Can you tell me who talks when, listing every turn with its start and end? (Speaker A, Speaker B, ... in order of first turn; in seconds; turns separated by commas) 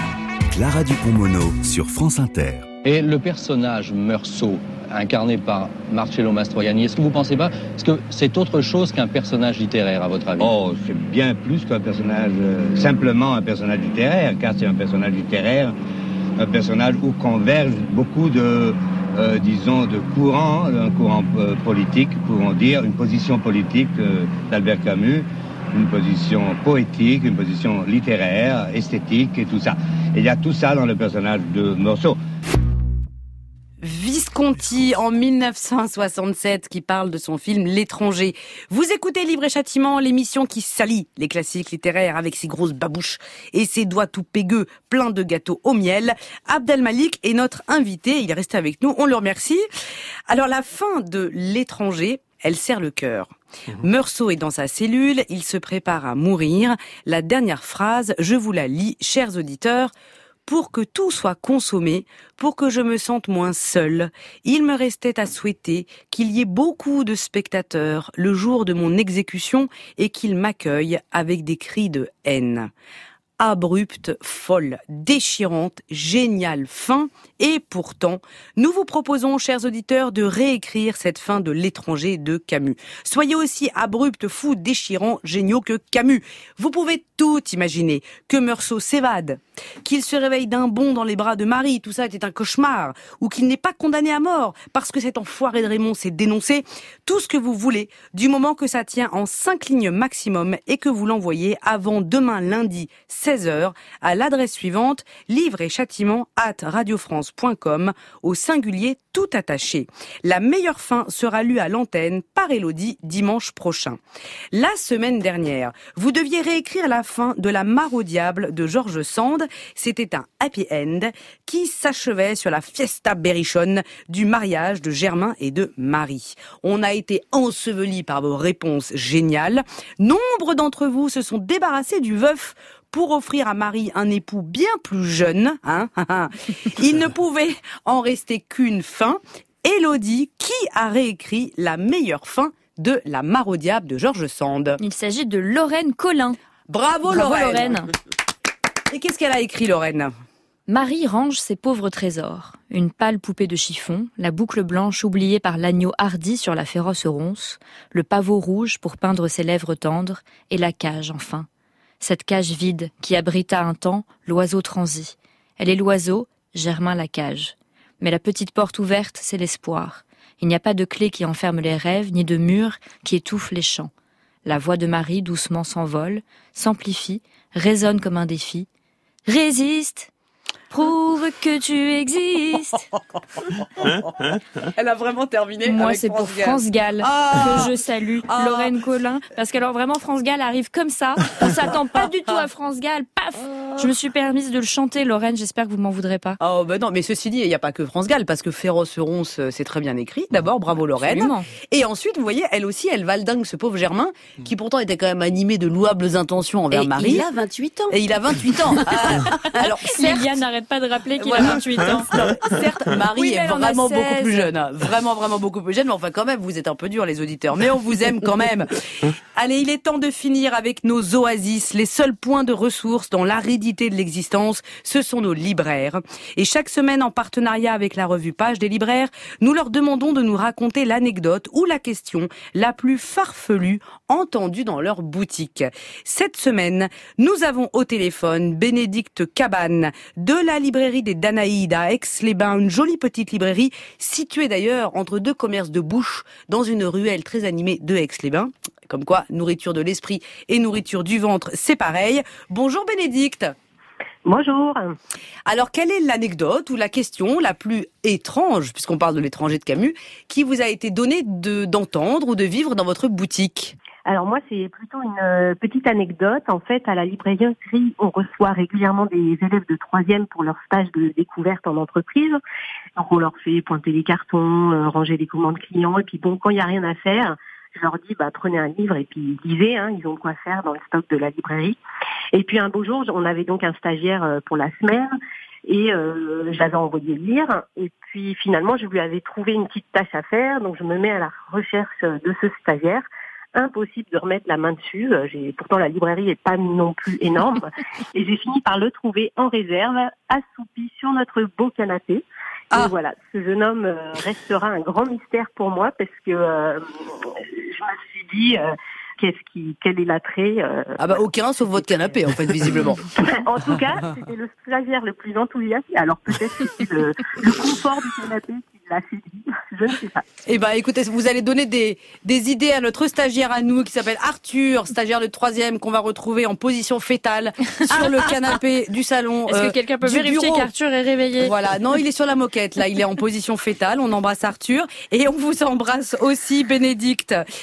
Speaker A: 0.5-2.7, Speaker B: 2.8-10.5, Speaker C: 10.4-15.7, Speaker C: 16.4-32.2, Speaker D: 33.8-49.6, Speaker D: 50.3-59.9, Speaker D: 60.5-72.7, Speaker D: 73.4-114.0, Speaker D: 114.5-144.8, Speaker E: 144.8-146.4, Speaker D: 146.7-147.7, Speaker E: 147.1-147.9, Speaker D: 148.9-150.1, Speaker E: 150.7-161.5, Speaker E: 162.0-173.9, Speaker E: 174.4-178.7, Speaker E: 179.3-180.1, Speaker E: 180.7-182.8, Speaker D: 184.7-187.7, Speaker E: 185.7-196.4, Speaker D: 188.3-188.7, Speaker D: 196.4-207.2, Speaker E: 201.0-201.5, Speaker F: 206.7-209.2, Speaker D: 207.9-210.3, Speaker E: 209.8-212.5, Speaker D: 211.2-253.5, Speaker E: 213.2-214.5, Speaker G: 254.2-254.9, Speaker D: 255.5-263.7, Speaker G: 264.1-272.4, Speaker G: 273.0-281.8, Speaker G: 282.3-285.1, Speaker G: 285.6-311.1, Speaker D: 311.0-313.2, Speaker G: 313.1-320.2, Speaker D: 320.5-330.7, Speaker E: 329.5-331.5, Speaker D: 331.4-337.4